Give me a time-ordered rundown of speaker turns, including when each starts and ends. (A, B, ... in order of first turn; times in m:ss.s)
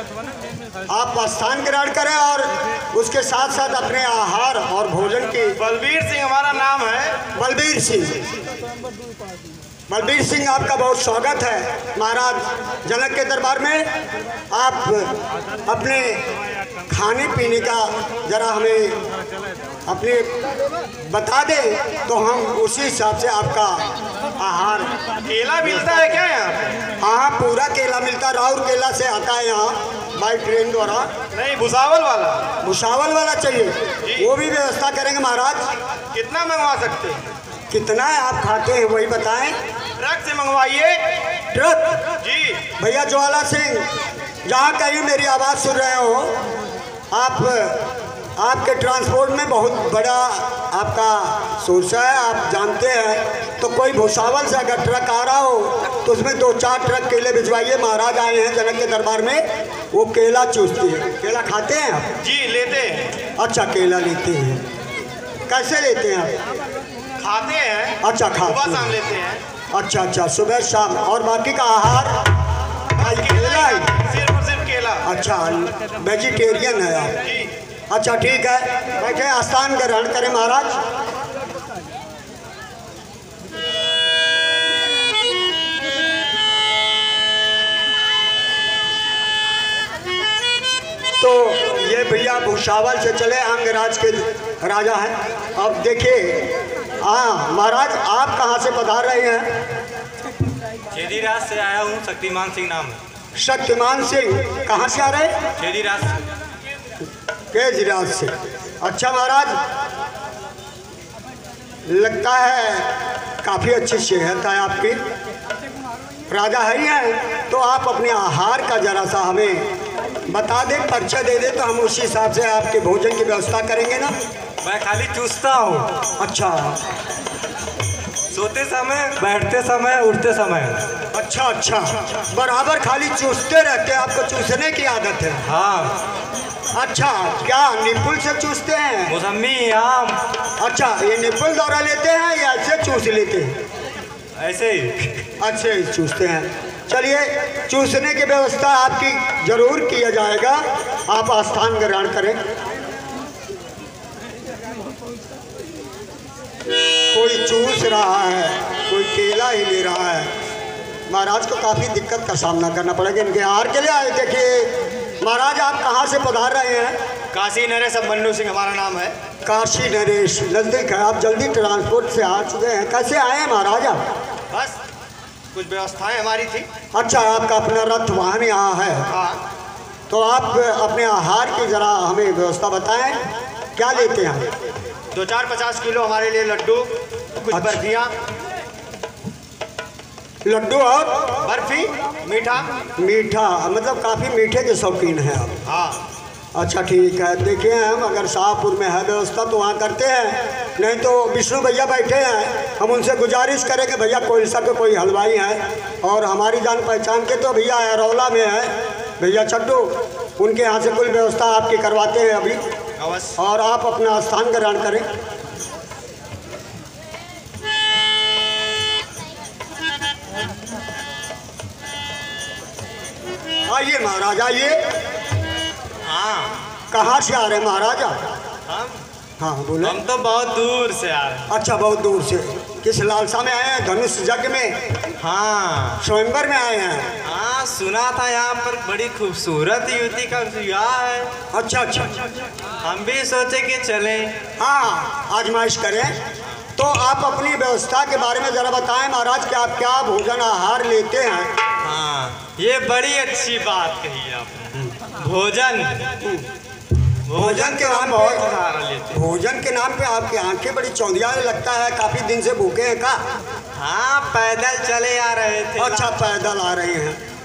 0:00.9-0:05.6 A
0:05.6-0:07.2 B
0:07.3-0:08.2 A
0:09.9-0:13.9 A
0:14.5-0:16.2 A
0:16.9-0:19.0 A
0:19.9-0:20.3 A
0:21.0-0:23.9 A
0:24.4-0:25.0 A
0:25.2-0:26.8 B
0:25.7-0:26.1 A
0:27.0-0:31.1 A
0:31.3-0:32.5 B
0:32.6-0:35.7 A
0:34.0-0:34.3 B
0:36.1-0:37.2 B
0:37.7-0:39.6 A
0:40.0-0:41.0 B
0:41.5-0:42.0 A
0:42.2-0:42.6 B
0:42.8-0:43.9 A
0:44.4-0:46.4 A
0:47.1-1:02.1 A
1:02.2-1:03.2 B
1:03.4-1:04.6 A
1:05.5-1:06.4 A
1:07.2-1:09.4 B
1:08.0-1:09.0 A
1:09.7-1:12.3 A
1:13.0-1:15.1 B
1:13.0-1:14.0 A
1:15.0-1:17.2 A
1:17.2-1:17.5 B
1:17.9-1:20.8 A
1:31.2-1:39.6 A
1:40.9-1:43.0 C
1:43.4-1:45.3 A
1:45.6-1:46.2 C
1:47.5-1:49.6 A
1:51.9-1:55.0 A
1:56.3-1:59.7 A
2:00.3-2:04.2 A
2:04.6-2:05.9 C
2:06.2-2:06.8 A
2:08.3-2:10.9 C
2:11.1-2:15.5 A
2:15.5-2:16.0 C
2:16.7-2:19.2 A
2:19.1-2:20.2 C
2:20.6-2:23.6 A
2:24.4-2:25.2 C
2:25.4-2:32.4 A
2:37.1-2:40.3 A
2:41.1-2:47.0 A
2:47.3-2:49.1 B
2:49.4-2:54.0 A
2:54.5-2:54.8 B
2:55.5-2:56.7 B
2:56.9-2:59.1 A
2:59.1-2:59.4 B
3:00.1-3:03.2 A
3:03.8-3:04.5 A
3:05.1-3:08.1 B
3:07.5-3:07.8 A
3:10.4-3:11.4 A
3:11.4-3:12.7 B
3:13.0-3:15.6 A
3:15.7-3:16.0 B
3:16.6-3:32.6 A
3:33.0-3:33.3 B
3:33.4-3:35.1 A
3:43.7-3:44.8 A
3:46.0-3:46.6 C
3:46.9-3:48.2 A
3:48.7-3:49.0 C
3:49.4-3:50.0 A
3:49.8-3:51.5 C
3:51.5-3:54.8 A
3:55.2-3:56.0 C
3:56.0-3:57.1 A
3:57.2-4:01.3 C
4:01.5-4:02.2 A
4:02.8-4:04.3 C
4:04.6-4:06.2 A
4:06.8-4:11.5 A
4:11.8-4:16.2 C
4:16.2-4:16.5 A
4:17.3-4:19.2 C
4:17.3-4:18.4 A
4:19.1-4:23.2 A
4:23.8-4:26.1 C
4:25.8-4:27.2 A